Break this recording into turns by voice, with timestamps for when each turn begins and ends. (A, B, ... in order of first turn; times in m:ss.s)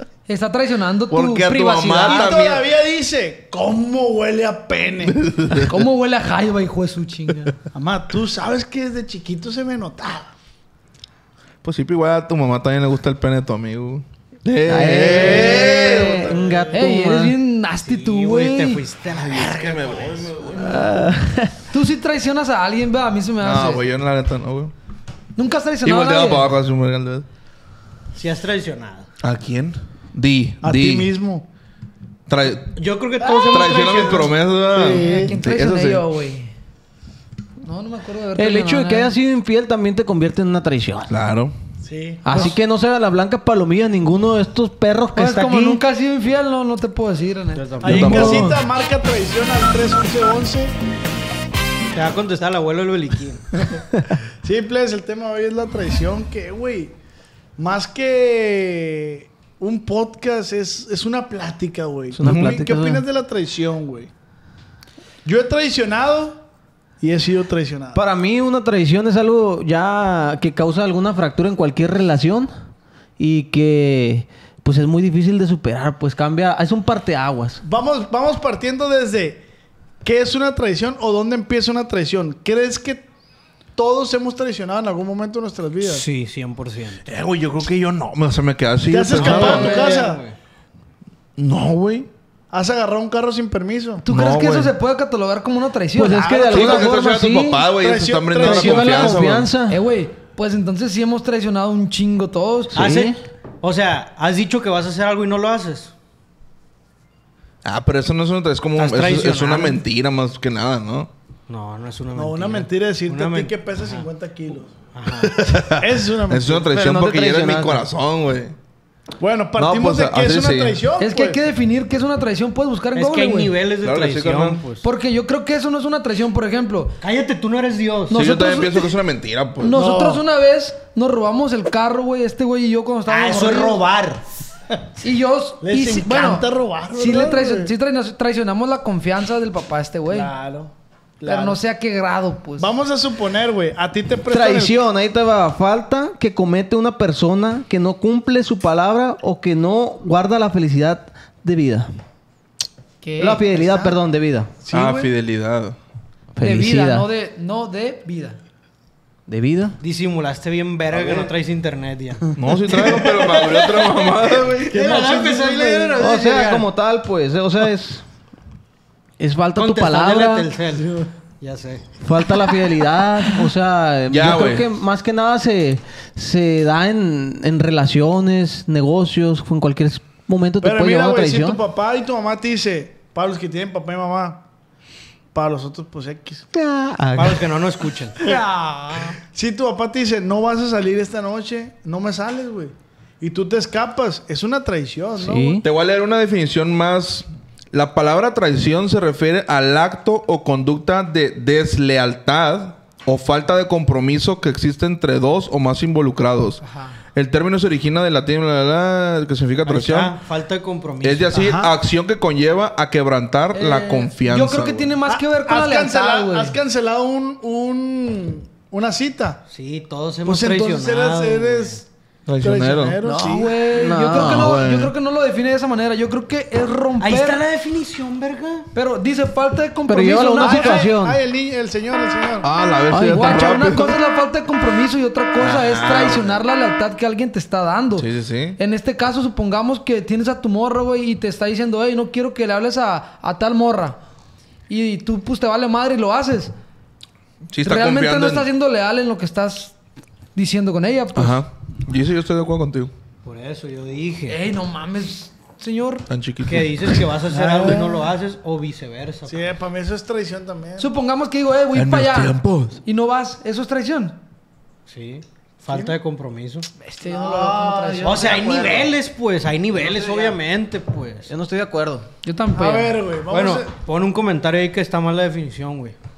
0:00.3-0:02.2 A
0:01.1-0:02.7 B
0:01.8-0:02.2 C
0:02.0-0:05.2 D
0:05.1-0:05.7 B
0:05.7-0:07.5 A
0:07.7-0:10.3 D
0:11.6-0:16.5 B
0:14.6-0:17.4 E
0:15.2-0:16.0 D
0:15.5-0:16.6 C
0:16.7-0:18.8 A
0:17.8-0:20.5 C
0:19.2-0:21.0 B
0:20.6-0:21.6 E
0:21.7-0:23.8 A
0:23.4-0:24.7 B
0:25.4-0:26.5 A
0:25.8-0:27.3 B
0:28.2-0:29.1 C
0:29.2-0:31.1 B
0:30.6-0:31.5 D
0:32.3-0:32.8 B
0:32.8-0:34.3 C
0:33.2-0:35.4 D
0:33.5-0:36.0 B
0:35.0-0:36.5 A
0:37.6-0:39.1 A
0:38.4-0:41.1 E
0:41.1-0:41.6 B
0:41.8-0:42.5 D
0:42.2-0:45.8 E
0:45.1-0:48.5 A
0:47.6-0:48.4 C
0:47.8-0:50.7 D
0:47.8-0:48.6 B
0:51.9-0:53.5 C
0:54.4-0:57.0 D
0:57.6-1:04.1 D
1:02.2-1:03.0 E
1:02.2-1:02.6 B
1:05.2-1:06.4 D
1:07.0-1:08.0 D
1:07.9-1:12.5 E
1:13.2-1:17.6 E
1:17.6-1:19.4 D
1:20.0-1:23.0 D
1:23.8-1:26.1 D
1:25.8-1:27.1 C
1:27.1-1:29.7 B
1:28.9-1:30.2 D
1:29.2-1:30.4 C
1:29.4-1:30.0 A
1:31.4-1:32.1 B
1:32.5-1:34.0 D
1:34.0-1:36.4 A
1:34.1-1:34.7 B
1:35.9-1:37.6 E
1:36.2-1:37.0 D
1:36.5-1:39.5 B
1:37.6-1:39.2 D
1:38.3-1:39.8 E
1:39.7-1:42.8 A
1:42.7-1:43.2 E
1:42.8-1:45.9 C
1:47.6-1:51.1 B
1:48.8-1:49.8 C
1:51.5-1:54.1 C
1:52.2-1:54.7 D
1:54.9-1:55.5 C
1:55.2-1:58.6 B
1:55.8-1:56.7 D
1:56.7-1:57.9 E
1:59.2-2:01.4 D
1:59.6-2:00.8 B
2:01.0-2:03.6 A
2:03.0-2:04.8 C
2:03.8-2:04.6 B
2:04.8-2:07.0 A
2:07.0-2:08.4 C
2:08.1-2:08.8 A
2:08.1-2:09.9 B
2:09.6-2:13.8 A
2:09.8-2:10.2 D
2:13.1-2:14.2 C
2:15.0-2:20.3 A
2:15.6-2:17.7 D
2:20.1-2:21.6 D
2:21.2-2:22.7 A
2:22.6-2:24.8 D
2:24.3-2:31.9 E
2:33.0-2:33.4 A
2:33.2-2:34.5 E
2:33.5-2:34.0 D
2:34.6-2:35.1 D
2:34.7-2:35.8 B
2:36.4-2:37.1 E
2:36.4-2:38.4 A
2:39.3-2:39.8 E
2:39.8-2:46.7 C
2:41.0-2:41.3 D
2:42.4-2:44.8 B
2:44.7-2:46.1 D
2:46.0-2:48.0 E
2:49.2-2:50.5 E
2:49.6-2:51.9 C
2:52.0-3:01.6 E
2:54.1-2:54.7 B
3:00.6-3:04.4 D
3:05.3-3:06.5 D
3:06.5-3:07.4 E
3:07.2-3:08.2 C
3:08.2-3:15.6 D
3:08.3-3:09.1 A
3:15.2-3:15.6 E
3:15.6-3:26.6 B
3:26.6-3:27.0 A
3:27.2-3:30.1 B
3:29.6-3:31.6 C
3:31.0-3:34.9 B
3:31.3-3:31.7 D
3:33.5-3:36.6 A
3:35.1-3:39.4 D
3:39.5-3:41.8 C
3:40.3-3:41.9 D
3:42.3-3:43.0 B
3:42.4-3:43.6 D
3:43.0-3:44.6 E
3:43.2-3:47.4 A
3:44.1-3:44.9 B
3:47.0-3:48.7 C
3:48.7-3:50.8 A
3:49.9-3:51.2 E
3:50.4-3:52.5 D
3:52.4-3:54.0 B
3:52.9-3:53.5 E
3:53.1-4:04.0 A
3:55.4-3:56.4 B
3:58.0-3:58.6 B
4:04.7-4:06.5 A
4:07.5-4:08.5 B
4:07.6-4:09.7 A
4:10.4-4:11.4 A
4:11.2-4:12.9 B
4:13.2-4:14.4 C
4:14.3-4:16.1 A
4:16.1-4:17.1 B
4:16.5-4:19.5 C
4:17.3-4:17.9 D
4:19.3-4:20.9 D
4:20.8-4:24.2 A
4:21.7-4:22.8 B
4:24.9-4:26.7 C
4:26.8-4:28.6 A
4:27.0-4:28.9 D
4:28.0-4:31.3 C
4:31.3-4:32.1 E
4:32.2-4:33.0 A
4:32.6-4:33.7 D
4:33.3-4:36.0 C